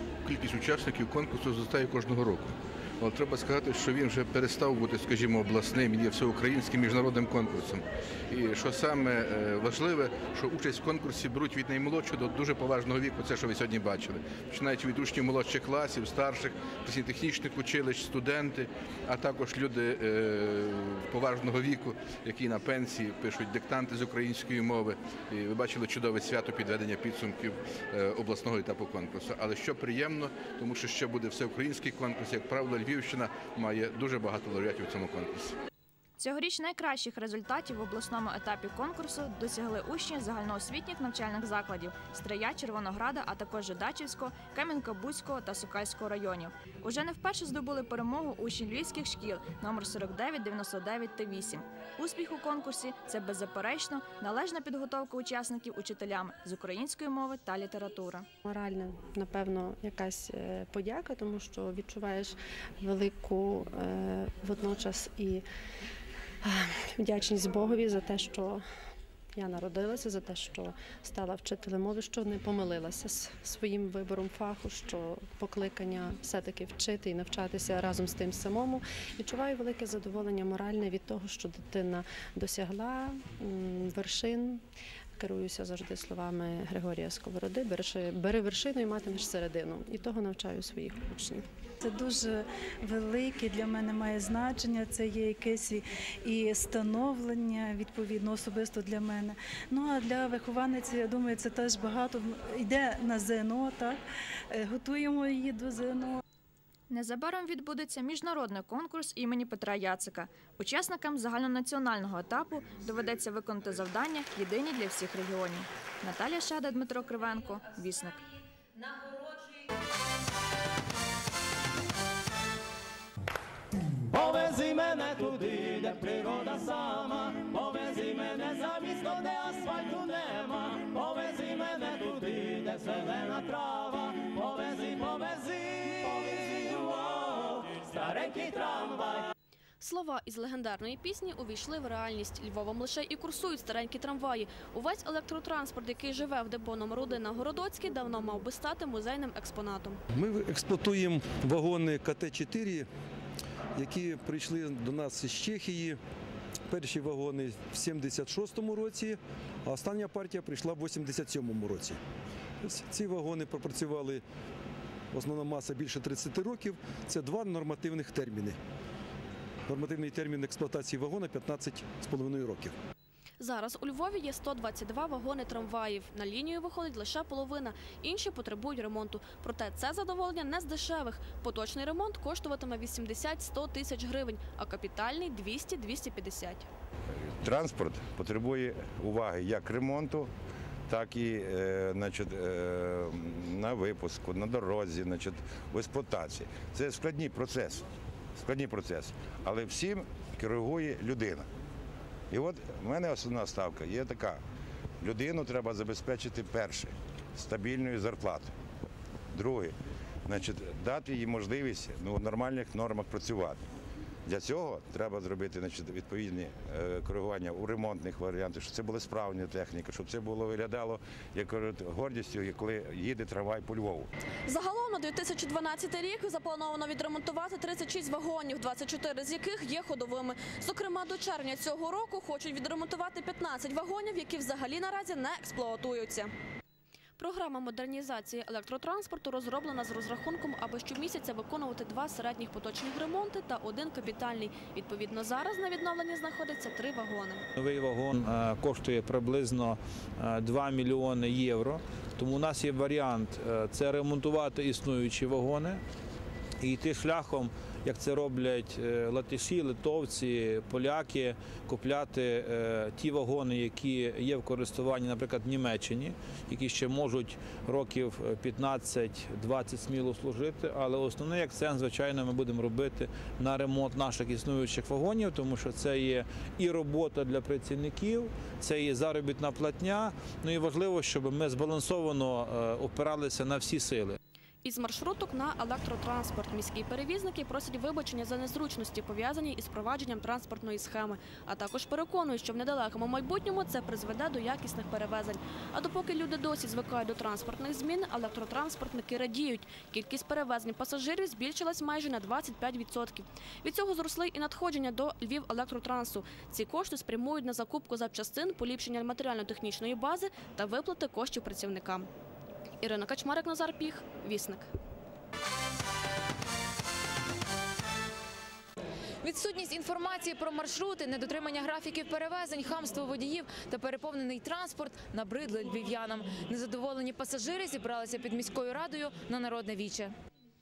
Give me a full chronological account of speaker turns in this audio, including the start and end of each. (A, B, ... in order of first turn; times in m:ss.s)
0:00.2-0:35.3 A
0:36.2-0:58.2 B
0:58.4-1:05.4 C
1:06.4-1:08.6 C
1:09.3-1:24.6 C
1:25.2-1:31.4 C
1:31.8-1:44.0 D
1:44.5-1:46.2 D
1:46.9-1:58.2 B
2:04.2-2:06.3 E
2:19.8-2:30.0 F
2:30.1-2:32.9 G
2:33.8-2:36.0 G
2:36.7-2:42.0 G
2:42.6-2:44.2 G
2:45.1-2:48.6 G
2:49.7-2:52.8 G
2:53.4-3:06.6 F
3:07.1-3:10.3 H
3:10.9-3:21.4 H
3:22.3-3:24.4 H
3:25.0-3:28.5 H
3:29.3-3:33.6 H
3:34.2-3:44.1 H
3:44.5-3:56.3 F
3:57.2-4:07.4 F
4:07.6-4:15.8 I
4:16.6-4:44.2 I
4:44.6-5:12.1 F
5:12.8-5:14.7 F
5:19.2-5:30.1 J